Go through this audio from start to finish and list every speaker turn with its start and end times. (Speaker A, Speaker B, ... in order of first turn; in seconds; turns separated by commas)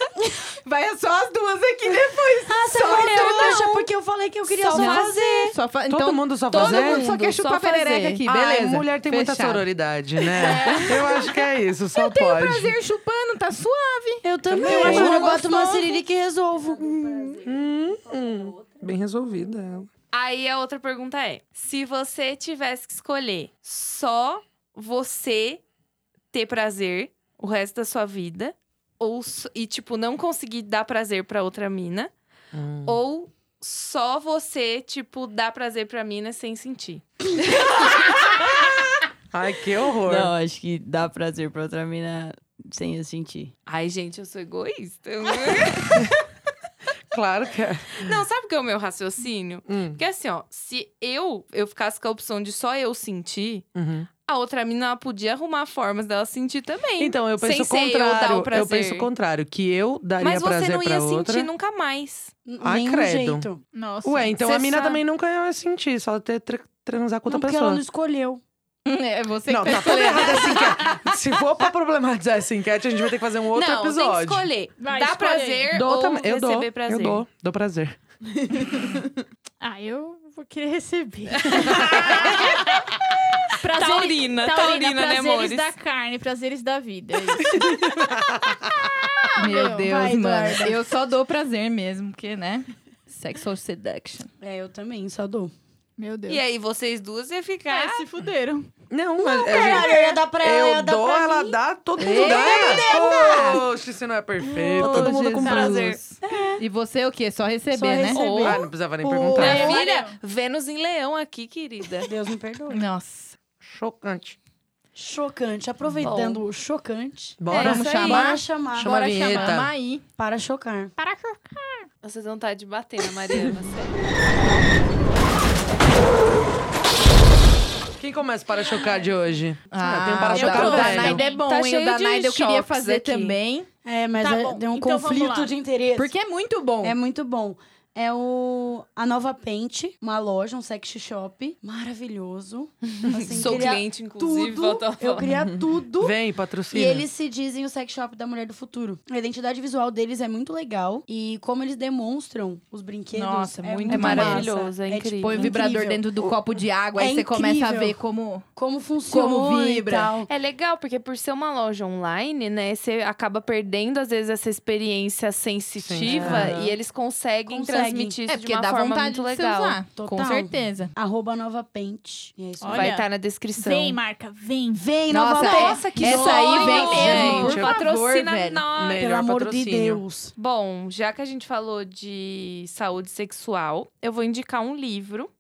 Speaker A: 0.2-3.7, Speaker B: 2.5-5.5, Speaker C: 2.8-3.9, Speaker C: 4.5-5.6, Speaker A: 4.7-9.7, Speaker D: 5.9-7.1, Speaker C: 6.5-8.2, Speaker D: 8.2-12.8, Speaker A: 10.2-11.3, Speaker A: 11.9-15.3, Speaker B: 14.2-17.5, Speaker D: 14.6-15.6, Speaker C: 14.7-15.3, Speaker D: 16.9-19.9, Speaker C: 20.1-25.6, Speaker C: 26.3-32.1, Speaker D: 32.5-33.0, Speaker C: 32.9-37.7, Speaker E: 37.6-37.9, Speaker D: 39.3-40.3, Speaker E: 40.0-43.5, Speaker C: 43.7-46.2, Speaker D: 47.1-48.2, Speaker C: 47.9-53.6, Speaker D: 49.7-50.0, Speaker D: 53.7-54.1, Speaker C: 54.2-59.1, Speaker D: 57.0-61.5, Speaker C: 60.2-62.3, Speaker B: 62.5-63.6, Speaker D: 62.6-63.5, Speaker F: 63.7-64.4, Speaker D: 64.0-67.8, Speaker C: 64.4-65.0, Speaker B: 67.3-68.4, Speaker A: 68.9-71.2, Speaker D: 69.5-74.5, Speaker C: 73.5-77.2, Speaker F: 74.8-75.7, Speaker D: 75.7-78.0, Speaker E: 78.4-79.1, Speaker F: 79.6-82.8, Speaker C: 81.3-82.8, Speaker D: 81.6-81.9, Speaker F: 83.5-87.8, Speaker C: 83.7-85.7, Speaker D: 87.4-88.7, Speaker F: 88.7-89.9, Speaker A: 89.4-94.3, Speaker B: 89.8-90.8, Speaker B: 94.4-95.5, Speaker F: 96.0-96.4, Speaker C: 96.3-98.0, Speaker F: 97.7-98.7, Speaker D: 98.9-106.0, Speaker B: 99.2-103.6, Speaker F: 99.5-100.0, Speaker A: 102.0-103.6, Speaker C: 104.6-106.0, Speaker E: 104.8-105.5, Speaker F: 105.4-105.9, Speaker B: 106.2-106.6, Speaker A: 106.6-108.2, Speaker B: 107.7-109.6, Speaker C: 108.1-108.7, Speaker D: 108.3-109.8, Speaker F: 109.0-110.2, Speaker C: 109.3-112.1, Speaker B: 112.0-112.8, Speaker A: 112.7-113.3, Speaker D: 113.6-114.4, Speaker B: 115.0-119.4, Speaker C: 116.0-116.4, Speaker D: 117.4-119.7, Speaker C: 117.5-118.4, Speaker A: 117.5-120.0, Speaker B: 120.2-120.9, Speaker F: 121.0-121.9, Speaker C: 122.0-124.0, Speaker D: 128.0-131.2, Speaker A: 129.7-133.7, Speaker F: 130.3-131.4, Speaker C: 130.7-133.4, Speaker B: 133.8-136.1, Speaker F: 134.2-135.5, Speaker A: 136.0-137.0, Speaker B: 136.8-146.2, Speaker C: 143.0-145.3, Speaker D: 146.0-147.1, Speaker B: 146.7-156.3, Speaker A: 153.1-154.5, Speaker C: 153.9-155.6, Speaker A: 155.2-158.5, Speaker B: 156.9-158.0, Speaker B: 158.6-160.3, Speaker A: 159.1-160.1, Speaker C: 160.3-169.8, Speaker D: 165.8-166.8, Speaker B: 166.1-166.5, Speaker B: 167.5-168.2, Speaker A: 168.3-170.9, Speaker B: 170.0-172.9, Speaker F: 172.6-174.9, Speaker C: 172.7-174.0, Speaker B: 174.7-177.6, Speaker A: 175.1-178.7, Speaker C: 175.4-179.0, Speaker F: 176.6-177.5, Speaker D: 177.0-177.8, Speaker D: 178.8-180.0, Speaker B: 179.0-180.3, Speaker C: 180.4-185.3